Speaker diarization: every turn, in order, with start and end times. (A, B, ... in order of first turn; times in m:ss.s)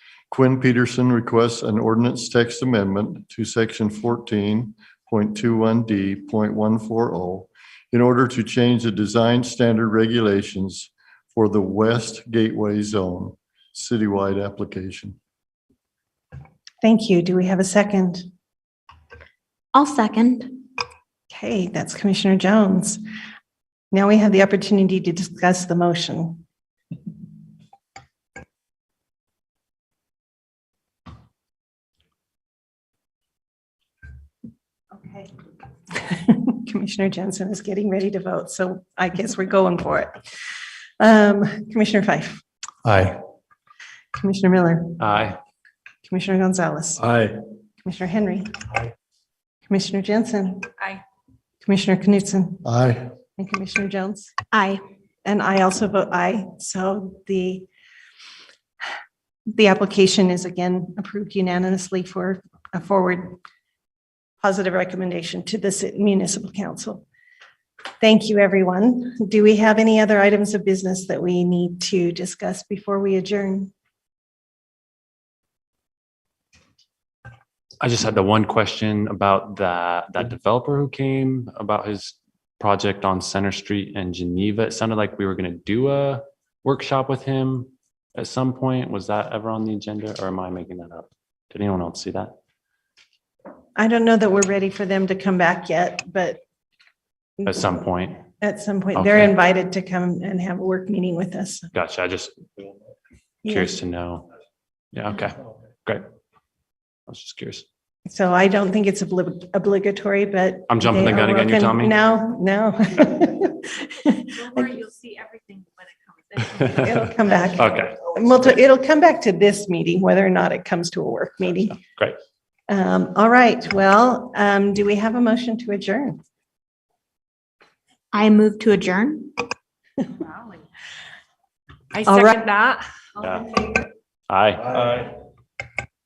0:00.3-0:15.2 A
0:16.8-0:18.2 B
0:19.7-0:20.6 C
0:21.3-0:23.0 B
0:23.9-0:26.4 B
0:34.9-0:35.3 B
0:35.9-0:40.2 B
0:41.0-0:42.4 B
0:42.8-0:43.1 A
0:44.1-0:45.1 B
0:45.0-0:45.4 D
0:46.0-0:47.0 B
0:47.0-0:47.3 A
0:47.8-0:48.6 B
0:49.7-0:50.7 B
0:51.6-0:52.6 B
0:52.6-0:53.0 A
0:53.4-0:54.3 B
0:54.5-0:54.8 C
0:55.2-0:57.7 B
0:59.5-1:03.4 B
1:04.4-1:07.0 B
1:08.0-1:13.7 B
1:17.8-1:32.3 D
1:33.8-1:36.4 B
1:37.4-1:37.8 B
1:37.5-1:38.2 D
1:38.4-1:41.7 B
1:38.9-1:39.3 D
1:41.7-1:42.4 D
1:43.4-1:43.8 B
1:43.5-1:44.3 D
1:44.9-1:46.0 D
1:47.1-1:47.6 D
1:48.0-1:54.7 B
1:50.7-1:51.9 D
1:54.4-1:56.7 E
1:56.6-2:01.8 B
1:56.6-1:58.0 D
2:01.7-2:02.2 D
2:02.7-2:06.2 B
2:08.1-2:09.5 C
2:11.9-2:12.8 E
2:12.1-2:12.4 B
2:13.2-2:13.6 D
2:14.3-2:15.0 D